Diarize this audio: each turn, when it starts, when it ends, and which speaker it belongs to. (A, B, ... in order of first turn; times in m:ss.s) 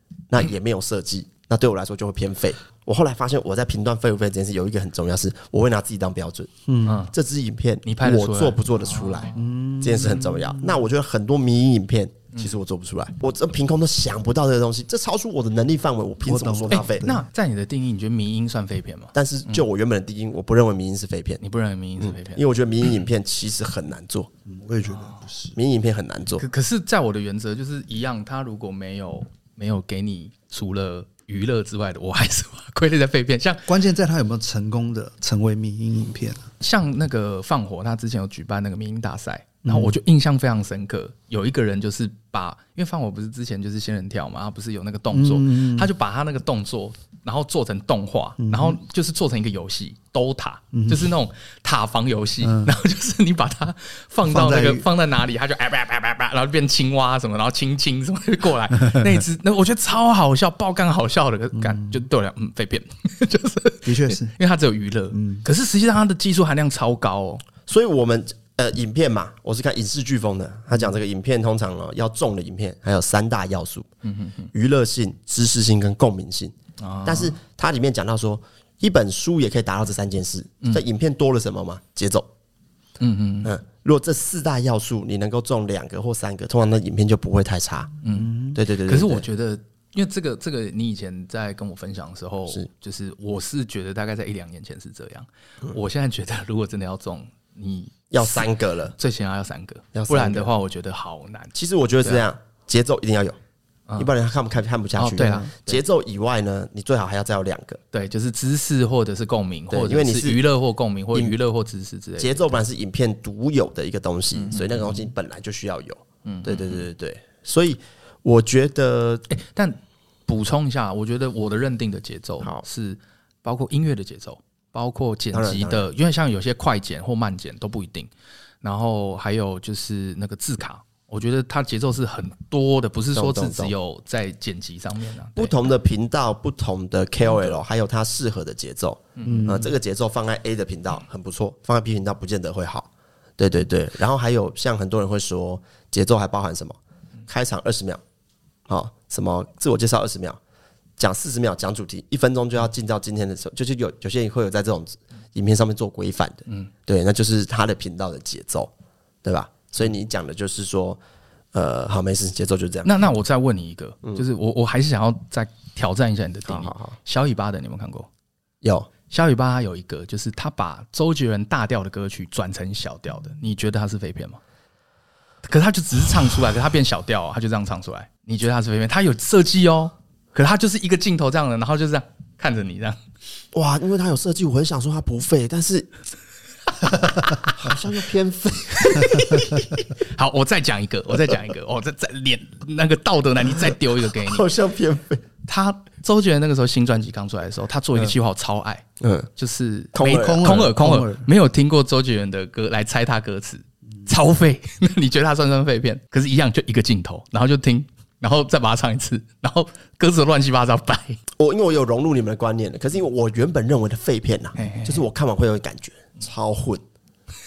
0:00.3-0:06.5 A
0:06.7-0:07.0 B
0:06.8-0:07.1 C
0:07.1-0:17.1 A
0:07.8-0:09.4 C
0:09.3-0:10.8 B
0:16.2-0:17.2 B
0:16.7-0:19.6 C
0:19.1-0:21.4 A
0:21.4-0:22.4 C
0:22.0-0:24.3 A
0:24.4-0:25.6 B
0:25.6-0:26.4 A
0:26.4-0:33.6 C
0:33.7-0:36.4 B
0:36.6-1:07.4 C
0:39.6-0:39.9 B
0:45.1-0:45.9 B
0:48.4-0:48.8 B
0:50.7-0:51.1 B
0:52.4-0:52.8 B
0:54.3-0:54.9 B
0:58.9-0:59.2 B
1:01.6-1:02.0 B
1:03.8-1:04.4 B
1:05.1-1:05.4 B
1:07.6-1:13.9 A
1:14.0-1:14.5 C
1:14.5-1:16.5 A
1:16.8-1:17.4 C
1:17.0-1:22.3 A
1:23.0-1:23.5 C
1:23.4-1:27.9 A
1:28.0-1:42.2 C
1:28.1-1:28.6 B
1:28.5-1:29.2 A
1:38.1-1:38.9 A
1:39.9-1:40.5 A
1:41.6-1:43.4 A
1:44.0-1:47.8 A
1:45.0-1:45.8 C
1:47.9-1:52.5 C
1:49.7-1:50.4 A
1:52.2-1:59.2 A
1:54.4-1:55.0 C
1:56.2-1:56.8 C
1:59.3-2:08.1 C
2:05.3-2:05.8 A
2:08.6-2:15.5 C
2:13.1-2:13.7 A
2:15.4-2:28.0 A
2:19.2-2:19.5 C
2:19.2-2:19.7 B
2:28.7-2:30.4 A
2:31.0-2:38.7 A
2:39.2-2:41.0 A
2:41.5-2:42.9 A
2:42.8-2:48.1 C
2:46.5-2:47.0 A
2:48.6-2:48.9 A
2:49.1-2:54.4 C
2:55.4-3:03.0 C
3:03.5-3:05.9 A
3:07.4-3:09.5 A
3:08.8-3:14.4 C
3:14.1-3:15.2 A
3:15.5-3:18.8 C
3:19.0-3:19.3 A
3:19.4-3:31.2 C
3:19.9-3:20.5 A
3:20.1-3:21.3 B
3:31.4-3:36.8 A
3:34.6-3:35.0 C